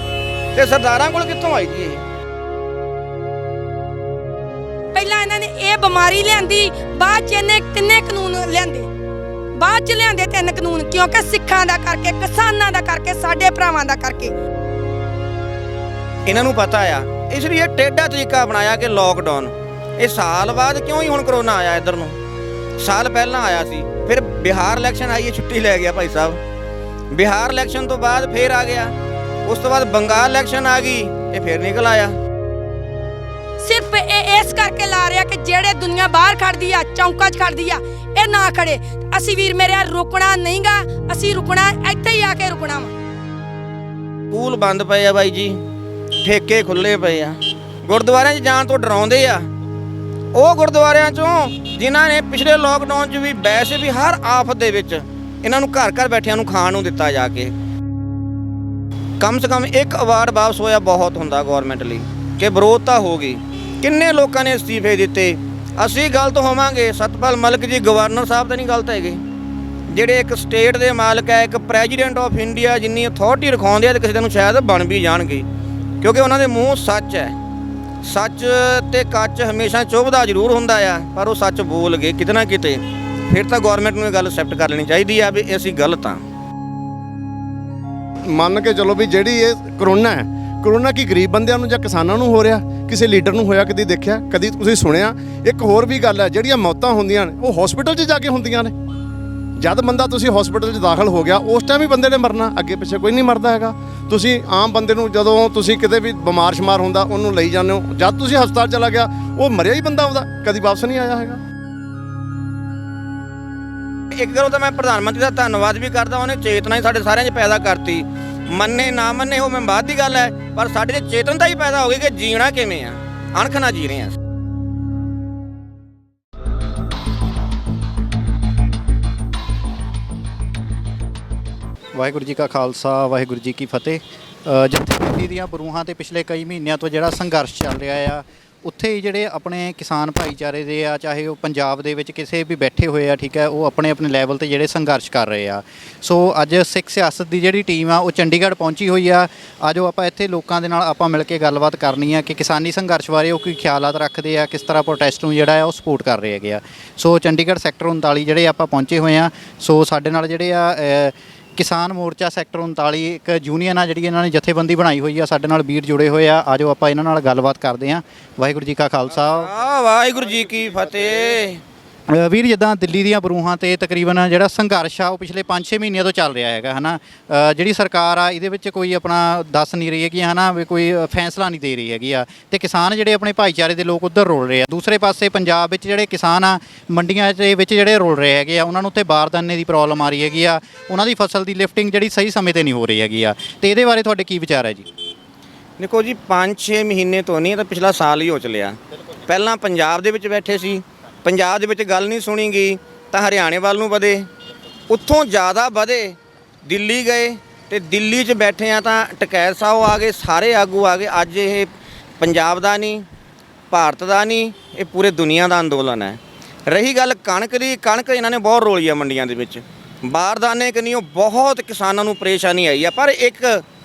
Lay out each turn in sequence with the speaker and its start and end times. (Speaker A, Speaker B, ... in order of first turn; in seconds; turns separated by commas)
Speaker A: 0.5-2.0, Speaker B: 4.9-8.8, Speaker B: 9.6-14.3, Speaker A: 16.2-22.1, Speaker A: 22.8-26.4, Speaker A: 27.1-28.9, Speaker A: 29.4-32.1, Speaker B: 33.6-42.9, Speaker A: 44.3-45.6, Speaker A: 46.2-49.5, Speaker A: 50.3-57.5, Speaker A: 59.2-69.2, Speaker A: 69.9-75.5, Speaker A: 76.0-77.3, Speaker A: 78.0-86.2, Speaker C: 88.3-98.7, Speaker C: 99.6-111.4, Speaker A: 114.1-124.2, Speaker D: 131.9-169.5, Speaker A: 169.3-171.6, Speaker D: 172.1-194.9, Speaker A: 195.8-204.3, Speaker A: 204.9-213.0, Speaker A: 213.7-223.6